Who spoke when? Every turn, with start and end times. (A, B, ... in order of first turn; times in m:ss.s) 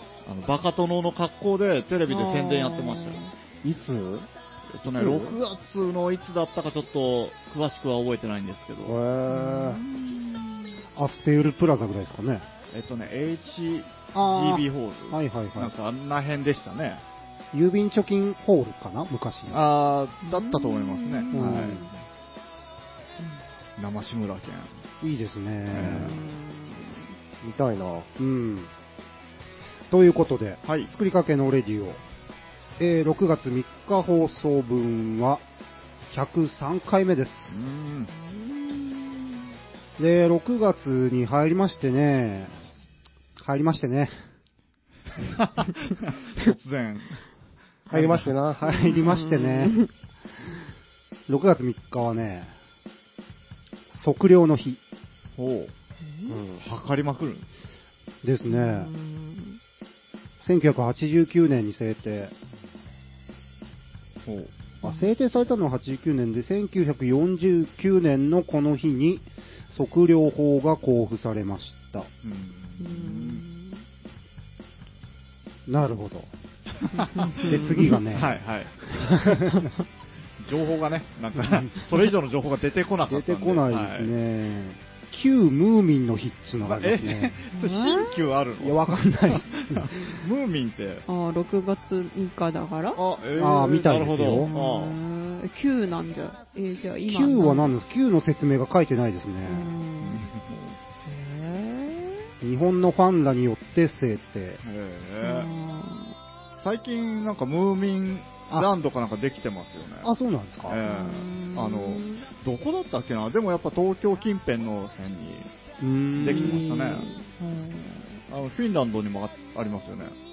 0:00.2-0:03.2 A
0:02.1-0:03.3 B
0:03.6-0:04.3 C
0:04.7-0:09.0 A
0:05.0-0:05.4 C
0:08.8-0:09.8 C
0:09.3-0:10.8 B
0:11.0-0:12.5 D
0:12.7-0:17.0 A
0:14.1-0:15.7 D
0:17.5-0:19.6 D
0:19.5-0:21.9 A
0:20.2-0:21.9 B
0:21.3-0:21.9 D
0:23.8-0:24.7 A
0:25.0-0:26.2 D
0:25.7-0:26.2 A
0:25.9-0:27.1 B
0:27.4-0:28.1 C
0:28.2-0:28.7 D
0:29.9-0:32.0 D
0:30.6-0:30.9 A
0:32.8-0:35.4 D
0:36.1-0:37.6 D
0:37.5-0:38.1 A
0:38.1-0:39.4 B
0:40.0-0:42.6 D
0:43.4-0:44.2 D
0:45.4-0:47.2 A
0:47.9-0:48.3 A
0:47.9-0:48.8 C
0:48.6-0:49.8 D
0:48.8-0:49.9 B
0:51.3-0:52.5 D
0:53.9-0:54.8 D
0:55.4-0:55.7 A
0:56.0-0:56.4 B
0:56.3-0:56.6 C
0:56.6-0:57.5 A
0:58.2-0:58.9 D
0:58.5-0:59.6 B
1:00.4-1:02.3 D
1:04.3-1:04.5 A
1:04.8-1:12.1 D
1:12.2-1:13.4 A
1:12.8-1:13.8 B
1:15.7-1:16.3 D
1:16.9-1:19.0 A
1:17.0-1:17.9 B
1:17.5-1:18.4 D
1:19.0-1:19.7 D
1:20.4-1:24.1 A
1:23.1-1:27.4 D
1:26.6-1:31.0 A
1:27.5-1:28.2 B
1:28.6-1:29.9 D
1:31.1-1:33.0 B
1:33.0-1:35.0 A
1:33.4-1:34.5 D
1:34.2-1:37.7 B
1:37.1-1:39.7 D
1:39.5-1:40.3 B
1:40.0-1:40.8 A
1:41.1-1:42.3 B
1:42.4-1:44.6 D
1:44.6-1:45.5 A
1:45.2-1:46.2 B
1:46.6-1:50.1 A
1:50.0-1:50.8 D
1:50.7-1:55.5 A
1:50.8-1:52.3 B
1:55.8-1:56.6 D
1:56.2-1:57.1 A
1:56.2-1:58.2 B
1:58.3-2:00.2 A